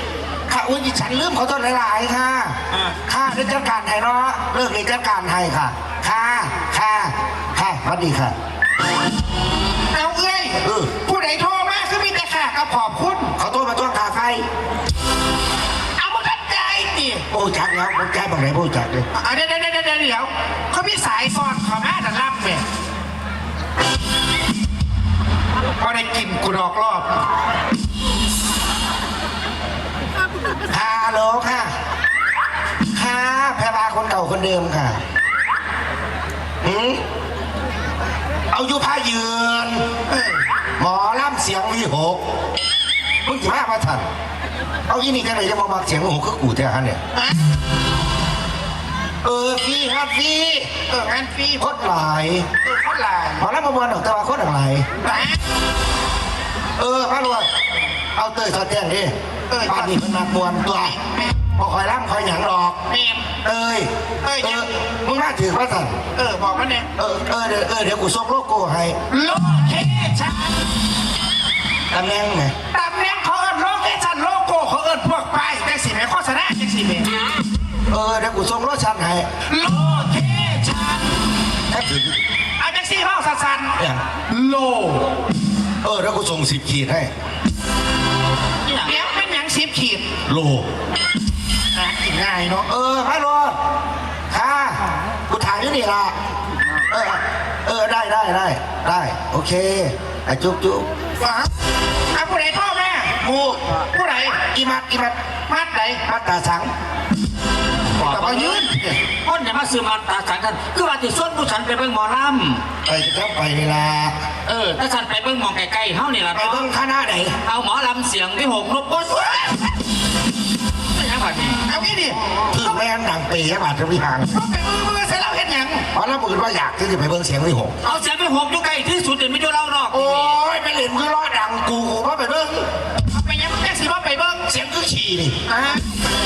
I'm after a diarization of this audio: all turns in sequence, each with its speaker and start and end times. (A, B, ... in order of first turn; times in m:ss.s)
0:00.5-0:08.3 A
0:09.9-0:13.3 B
0:10.6-0:10.9 A
0:13.4-0:14.4 A
0:16.0-0:17.2 B
0:17.3-0:19.1 A
0:19.1-0:22.6 B
0:25.8-0:27.2 B
0:30.7-0:31.7 A
0:32.9-0:35.0 A
0:36.6-0:37.0 A
0:38.5-0:39.8 A
0:40.1-0:40.4 B
0:40.8-0:42.2 A
0:43.2-0:44.1 A
0:44.9-0:47.0 A
0:49.2-0:50.7 A
0:50.9-0:51.7 B
0:51.6-0:52.5 A
0:52.6-0:53.4 B
0:53.4-0:54.9 A
0:55.0-0:55.4 B
0:56.8-0:57.5 A
0:58.1-1:02.8 A
0:59.5-0:59.9 B
1:02.9-1:03.3 B
1:03.4-1:06.0 A
1:04.2-1:04.7 B
1:06.1-1:06.9 B
1:07.0-1:09.0 A
1:09.1-1:10.5 B
1:11.9-1:12.5 A
1:12.7-1:17.1 B
1:17.9-1:19.3 A
1:19.5-1:20.7 B
1:21.7-1:22.2 A
1:22.6-1:23.7 B
1:23.8-1:24.0 A
1:24.3-1:25.1 B
1:25.8-1:27.1 A
1:28.6-1:28.9 C
1:28.8-1:30.0 B
1:30.2-1:30.7 A
1:31.7-1:32.7 B
1:32.7-1:33.6 A
1:34.3-1:36.1 A
1:36.9-1:40.8 A
1:41.2-1:41.5 B
1:42.1-1:43.1 B
1:43.2-1:43.6 A
1:43.9-1:44.4 B
1:44.5-1:45.2 A
1:45.5-1:46.0 B
1:46.0-1:46.7 A
1:47.9-1:48.6 C
1:48.0-1:48.9 B
1:49.2-1:52.6 C
1:52.8-1:54.1 A
1:54.4-1:56.7 C
1:56.3-1:57.4 A
1:57.4-1:59.6 C
2:00.9-2:01.6 C
2:01.7-2:02.2 B
2:02.5-2:04.3 A
2:04.3-2:05.8 B
2:05.9-2:07.8 A
2:07.8-2:10.4 C
2:09.9-2:12.6 A
2:13.1-2:14.4 B
2:14.5-2:15.4 A
2:15.5-2:15.9 B